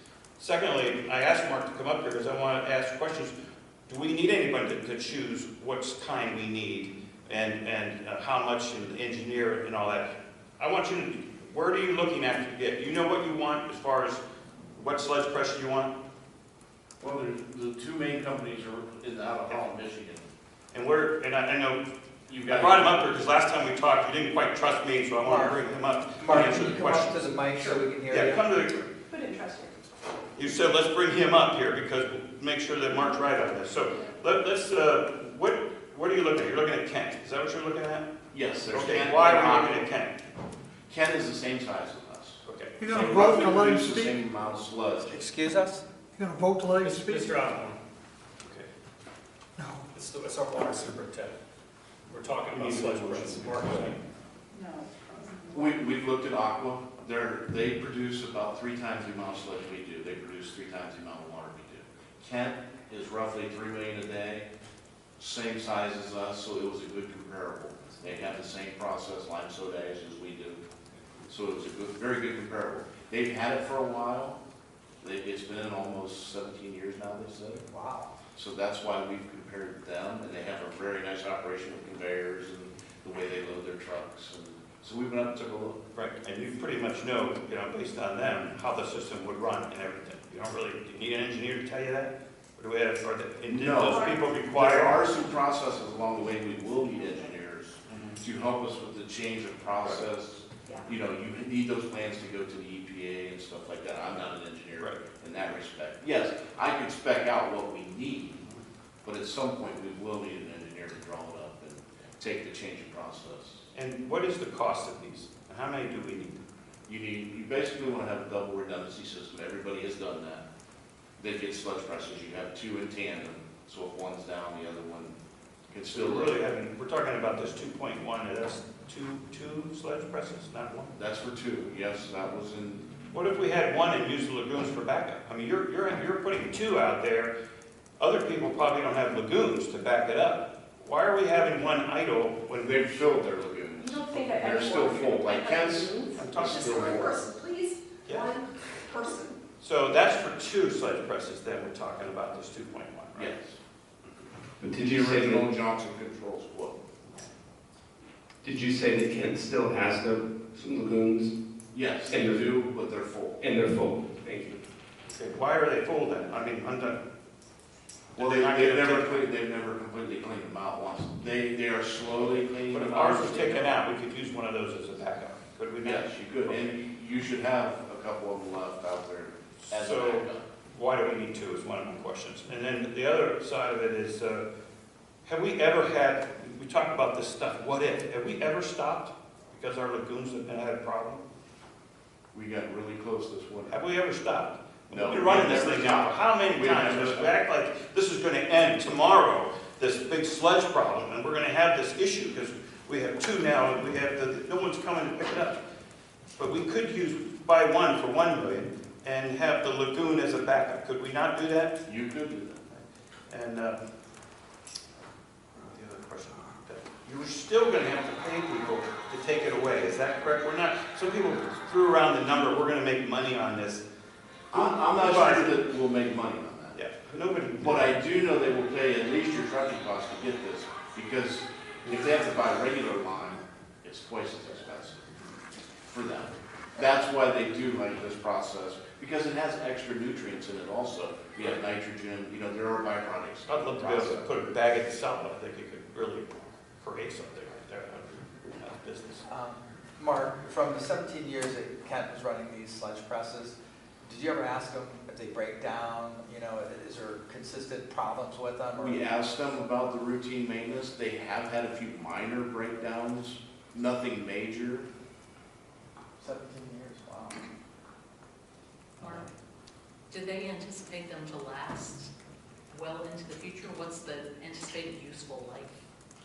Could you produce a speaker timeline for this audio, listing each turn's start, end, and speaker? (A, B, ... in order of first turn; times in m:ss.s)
0:00.4-0:03.3 A
0:03.9-0:14.2 A
0:14.7-0:15.9 A
0:17.0-0:20.2 B
0:20.7-0:21.8 A
0:22.3-0:23.1 B
0:22.5-0:28.9 A
0:25.2-0:28.6 C
0:29.1-0:29.7 D
0:30.4-0:38.1 A
0:38.3-0:39.9 B
0:38.7-0:40.2 A
0:40.9-0:45.2 B
0:42.4-0:42.8 A
0:42.8-0:44.1 E
0:45.1-0:45.8 C
0:46.2-0:47.2 E
0:46.8-0:47.8 F
0:48.4-0:48.7 A
0:49.9-0:51.4 F
0:52.1-0:54.0 F
0:52.5-0:53.9 A
0:54.5-0:55.6 D
0:55.5-1:04.5 B
1:05.2-1:10.6 B
1:11.3-1:14.4 B
1:15.0-1:17.6 B
1:17.7-1:18.1 C
1:18.3-1:25.8 B
1:25.9-1:35.1 A
1:33.5-1:48.4 B
1:37.9-1:38.2 A
1:49.0-1:53.6 B
1:53.7-1:56.4 A
1:56.9-2:00.4 B
2:01.2-2:05.1 B
2:05.7-2:06.4 B
2:05.9-2:10.9 A
2:11.0-2:12.9 B
2:13.1-2:17.3 A
2:18.0-2:22.7 A
2:22.6-2:27.3 B
2:23.8-2:29.3 D
2:26.2-2:26.9 A
2:28.0-2:28.3 A
2:29.6-2:33.3 A
2:33.1-2:33.6 B
2:34.6-2:35.5 G
2:34.8-2:36.8 B
2:38.4-2:41.3 G
2:41.7-2:43.4 B
2:42.1-2:42.5 G
2:43.4-2:44.6 G
2:45.1-2:47.0 A
2:48.2-2:49.2 A
2:48.2-2:53.7 B
2:52.7-2:56.6 A
2:55.8-3:00.4 B
2:59.6-3:04.4 A
3:05.2-3:11.2 A
3:12.3-3:13.8 B
3:13.7-3:25.6 A
3:14.9-3:17.3 B
3:26.4-3:31.8 A
3:31.8-3:32.6 B
3:32.7-3:33.8 A
3:35.6-3:43.8 A
3:44.5-3:46.8 B
3:44.5-3:45.6 A
3:46.7-3:47.9 A
3:47.6-3:55.1 B
3:55.8-4:04.3 B
4:03.5-4:09.2 A
4:09.3-4:19.0 C
4:18.8-4:24.9 B
4:26.2-4:27.5 C
4:29.0-4:29.3 H
4:30.1-4:32.1 H
4:32.7-4:35.7 H